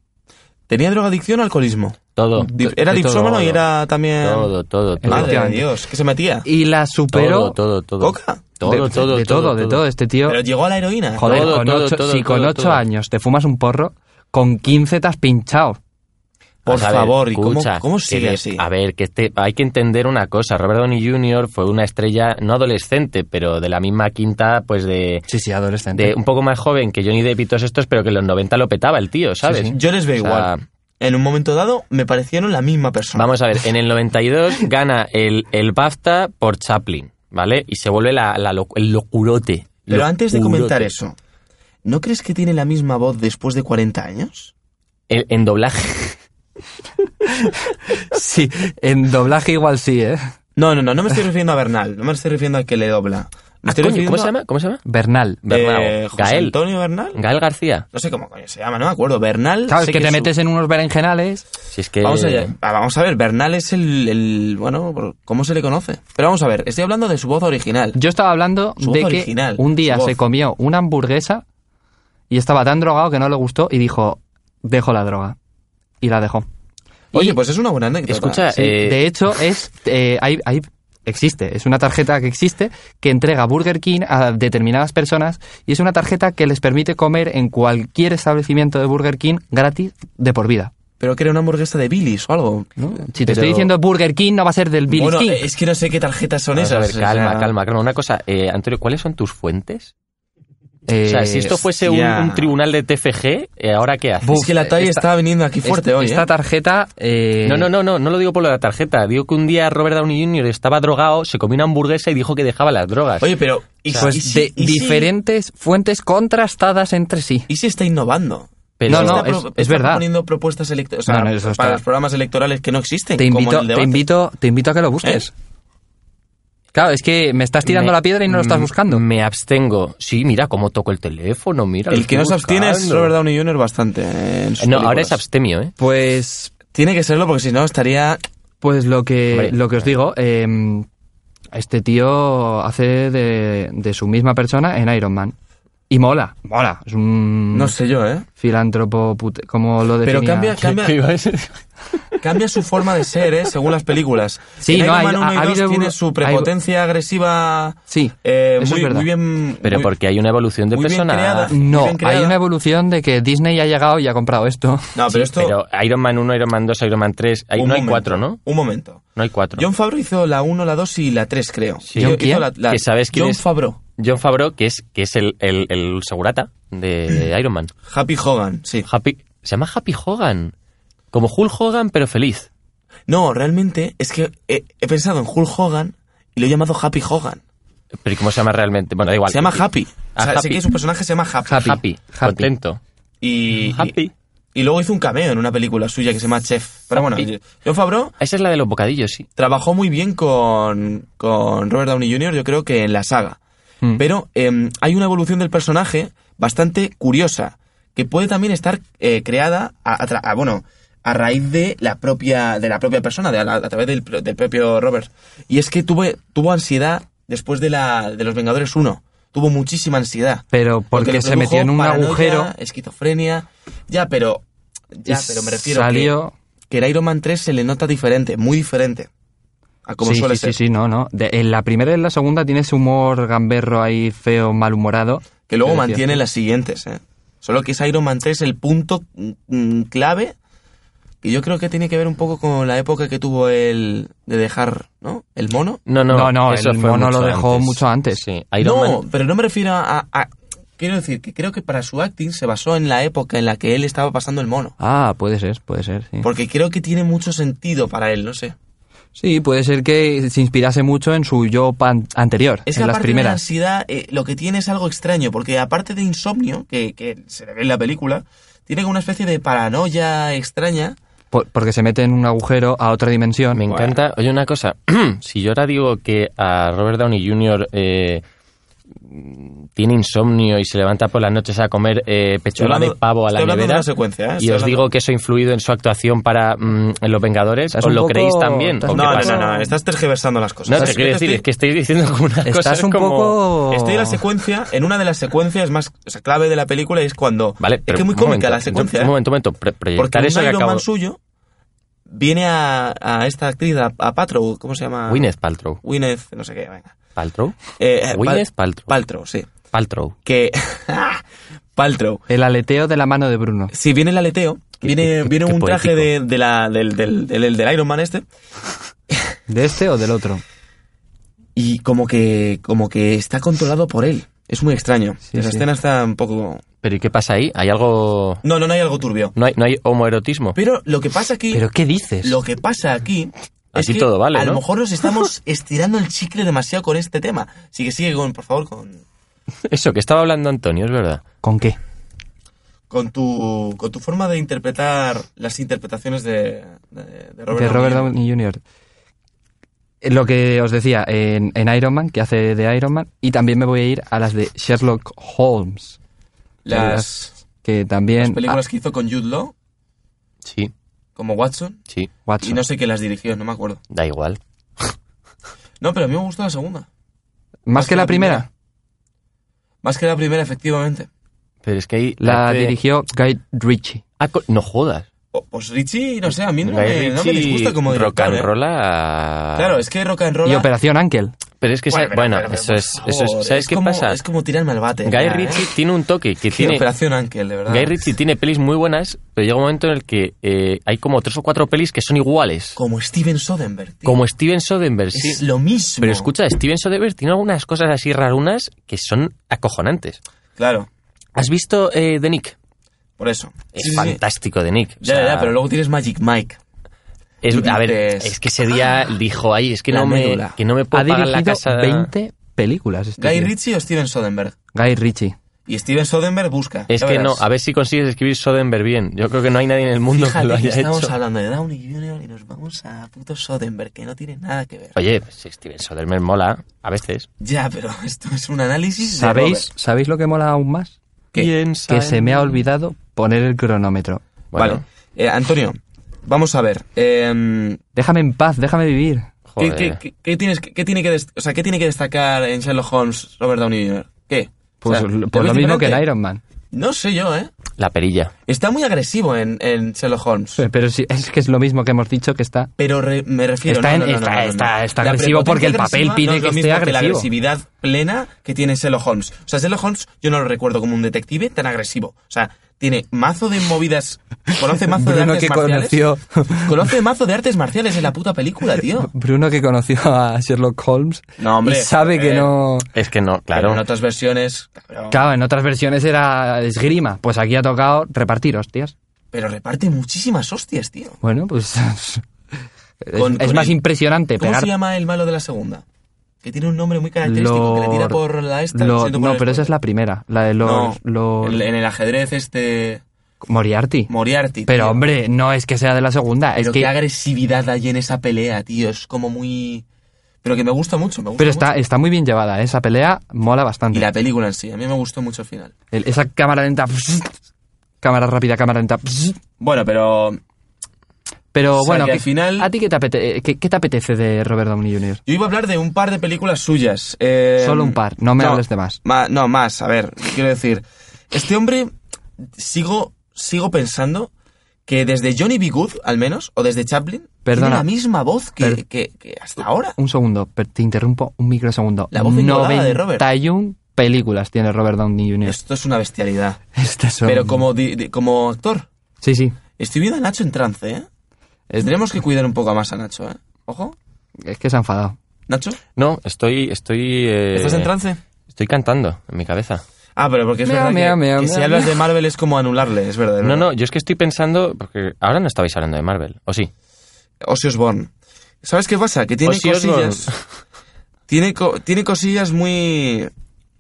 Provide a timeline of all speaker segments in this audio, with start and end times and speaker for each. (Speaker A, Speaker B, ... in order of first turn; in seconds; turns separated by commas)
Speaker A: 0.7-4.5, Speaker B: 2.1-3.6, Speaker C: 2.4-3.2, Speaker B: 4.2-5.4, Speaker C: 5.0-5.7, Speaker A: 5.0-6.5, Speaker C: 6.4-7.5, Speaker B: 7.1-9.8, Speaker A: 8.0-8.9, Speaker C: 8.7-10.4, Speaker A: 10.2-11.6, Speaker C: 11.2-15.8, Speaker B: 11.2-12.8, Speaker A: 16.6-18.6, Speaker B: 16.6-25.2, Speaker C: 25.3-26.1, Speaker B: 25.9-30.6, Speaker A: 29.5-33.3, Speaker B: 33.1-40.9, Speaker A: 39.9-41.1, Speaker A: 41.8-44.5, Speaker B: 45.1-46.2, Speaker C: 47.2-50.3, Speaker A: 50.5-54.3, Speaker B: 53.6-54.8, Speaker C: 54.9-55.4, Speaker B: 55.4-56.5, Speaker A: 55.5-57.2, Speaker B: 57.1-57.9, Speaker A: 57.9-60.3, Speaker C: 59.7-61.4, Speaker B: 61.7-62.5, Speaker A: 62.0-68.0, Speaker C: 67.9-71.4, Speaker A: 68.8-70.2, Speaker C: 72.3-75.3, Speaker C: 76.0-76.5, Speaker A: 77.1-78.5, Speaker B: 78.1-79.1, Speaker C: 78.5-90.7, Speaker A: 91.0-92.7, Speaker C: 92.8-95.4, Speaker B: 93.3-93.7, Speaker A: 94.9-97.5, Speaker B: 96.5-99.9, Speaker C: 100.9-101.6, Speaker B: 101.0-104.5, Speaker A: 101.6-102.5, Speaker C: 104.2-105.0, Speaker A: 104.2-106.3, Speaker C: 105.6-107.7, Speaker B: 107.5-113.3, Speaker A: 113.2-115.1, Speaker B: 113.9-114.1, Speaker C: 113.9-117.5, Speaker A: 117.5-124.0, Speaker B: 118.8-119.3, Speaker C: 118.9-120.0, Speaker C: 121.1-121.8, Speaker C: 123.2-125.3, Speaker C: 126.7-129.0, Speaker B: 127.6-133.1, Speaker A: 131.9-135.2, Speaker B: 134.6-135.7, Speaker C: 135.8-136.5, Speaker A: 136.7-138.2, Speaker C: 138.6-140.9, Speaker B: 139.3-139.6, Speaker C: 141.5-145.3, Speaker C: 145.9-147.7, Speaker A: 147.5-148.3, Speaker C: 148.4-150.7, Speaker A: 150.0-151.0, Speaker B: 150.6-152.0, Speaker A: 152.2-159.9, Speaker C: 154.6-156.5, Speaker C: 157.9-159.1, Speaker B: 159.6-161.5, Speaker A: 160.7-162.4, Speaker C: 161.5-164.9, Speaker A: 164.9-165.6, Speaker B: 165.1-168.4, Speaker A: 167.6-173.8, Speaker B: 169.2-169.7, Speaker B: 171.9-173.4, Speaker C: 171.9-172.5, Speaker B: 174.0-177.7, Speaker A: 177.9-178.9, Speaker B: 178.8-180.5, Speaker B: 181.1-182.5, Speaker A: 183.1-187.4, Speaker B: 188.0-190.6, Speaker A: 189.3-191.8, Speaker C: 191.4-192.5, Speaker B: 191.5-192.8, Speaker A: 193.2-194.0, Speaker B: 193.6-194.1, Speaker A: 194.5-198.1, Speaker B: 196.9-197.3, Speaker B: 198.2-199.3, Speaker A: 199.4-203.4, Speaker A: 203.9-226.1, Speaker C: 220.5-222.5, Speaker C: 225.1-226.3, Speaker A: 226.7-229.1, Speaker A: 229.8-230.6, Speaker C: 230.0-236.2, Speaker A: 235.5-240.3, Speaker A: 241.2-245.8, Speaker B: 245.9-249.0, Speaker C: 246.1-248.2, Speaker A: 248.6-254.7, Speaker C: 254.8-256.3, Speaker A: 256.2-258.6, Speaker C: 259.1-263.4, Speaker A: 262.6-271.0, Speaker C: 271.3-273.6, Speaker B: 273.5-278.2, Speaker A: 273.6-274.0, Speaker B: 279.1-283.9, Speaker A: 282.6-284.9, Speaker B: 284.4-289.4, Speaker C: 287.7-289.7, Speaker A: 288.9-291.4, Speaker B: 290.7-293.4, Speaker C: 292.4-294.2, Speaker A: 293.7-299.1, Speaker B: 297.6-300.8, Speaker A: 299.9-301.2, Speaker A: 302.1-305.3, Speaker B: 305.1-305.8, Speaker A: 305.8-306.9, Speaker B: 307.1-308.9, Speaker A: 307.8-309.5, Speaker B: 309.7-310.1, Speaker A: 310.2-311.2, Speaker A: 311.8-312.2, Speaker C: 312.3-313.7, Speaker A: 313.7-318.2, Speaker B: 314.8-316.1, Speaker C: 319.5-320.4, Speaker A: 321.6-326.6, Speaker C: 325.3-325.6, Speaker B: 326.8-328.4, Speaker A: 328.4-329.3, Speaker B: 329.4-330.6, Speaker A: 330.5-331.6, Speaker C: 331.5-332.4, Speaker A: 332.2-339.0, Speaker B: 333.7-334.6, Speaker B: 339.7-341.2, Speaker C: 341.4-341.8, Speaker A: 342.9-348.1, Speaker C: 347.5-348.6, Speaker C: 350.0-356.0, Speaker A: 356.6-357.3, Speaker C: 356.7-357.1, Speaker C: 357.6-358.6, Speaker A: 358.2-359.5, Speaker B: 360.4-360.7, Speaker A: 361.2-361.8, Speaker C: 362.2-362.6, Speaker A: 362.4-363.8, Speaker B: 363.9-364.9, Speaker A: 365.8-366.9, Speaker C: 367.7-368.5, Speaker A: 367.7-368.4, Speaker A: 369.8-371.1, Speaker B: 371.6-372.7, Speaker C: 372.2-374.0, Speaker B: 374.2-375.1, Speaker A: 375.3-378.5, Speaker B: 376.6-379.8, Speaker A: 379.6-380.7, Speaker C: 380.4-381.3, Speaker B: 381.6-384.2, Speaker A: 381.9-385.6, Speaker B: 385.0-386.8, Speaker A: 386.5-388.0, Speaker B: 387.7-392.8, Speaker A: 392.8-394.2, Speaker B: 394.0-395.4, Speaker A: 395.1-396.3, Speaker B: 396.0-400.2, Speaker A: 400.6-400.9, Speaker B: 401.4-402.5, Speaker A: 403.2-404.2, Speaker B: 403.7-405.5, Speaker A: 405.0-406.6, Speaker B: 407.4-412.1, Speaker A: 407.5-408.4, Speaker A: 409.9-410.6, Speaker C: 410.9-413.5, Speaker A: 413.2-414.6, Speaker C: 414.7-415.3, Speaker A: 415.7-417.4, Speaker B: 416.9-421.1, Speaker A: 420.1-424.9, Speaker B: 424.9-427.3, Speaker A: 427.4-429.7, Speaker C: 429.0-430.9, Speaker B: 431.3-432.6, Speaker C: 431.9-434.2, Speaker B: 434.5-434.8, Speaker A: 434.6-437.8, Speaker C: 437.9-439.3, Speaker B: 439.5-440.0, Speaker A: 439.6-446.0, Speaker C: 444.8-446.4, Speaker A: 446.7-447.5, Speaker B: 447.8-448.3, Speaker A: 448.5-450.6, Speaker C: 450.6-452.7, Speaker A: 452.8-466.0, Speaker C: 453.6-457.3, Speaker C: 464.8-466.8, Speaker A: 466.6-469.1, Speaker C: 469.0-472.9, Speaker A: 471.4-472.5, Speaker B: 472.9-473.8, Speaker A: 473.5-475.2, Speaker C: 475.1-478.9, Speaker A: 479.3-481.2, Speaker C: 481.2-482.2, Speaker C: 483.0-484.7, Speaker A: 483.1-483.8, Speaker A: 484.4-485.8, Speaker A: 486.4-489.7, Speaker C: 487.2-488.2, Speaker C: 488.7-491.6, Speaker A: 490.6-493.0, Speaker C: 493.4-494.1, Speaker A: 494.1-495.0, Speaker C: 494.7-496.9, Speaker A: 496.6-499.8, Speaker A: 500.4-501.7, Speaker C: 501.4-504.1, Speaker A: 503.9-505.7, Speaker C: 505.9-507.3, Speaker C: 508.0-509.4, Speaker A: 509.6-510.4, Speaker C: 511.5-515.2, Speaker A: 511.7-512.7, Speaker A: 515.2-524.3, Speaker C: 517.6-519.0, Speaker A: 524.9-530.0, Speaker C: 527.4-527.9, Speaker C: 530.0-535.6, Speaker A: 532.1-533.3, Speaker A: 535.4-536.6, Speaker C: 536.8-537.6, Speaker A: 537.2-538.9, Speaker C: 539.2-539.5, Speaker A: 539.8-541.1, Speaker A: 541.8-544.0, Speaker C: 544.4-545.2, Speaker A: 545.5-545.8, Speaker B: 546.0-547.9, Speaker A: 547.5-548.2, Speaker B: 548.5-549.8, Speaker A: 550.1-553.6, Speaker C: 550.6-552.0, Speaker B: 553.4-556.7, Speaker A: 557.4-558.1, Speaker A: 558.6-560.3, Speaker B: 559.4-560.5, Speaker A: 561.3-563.3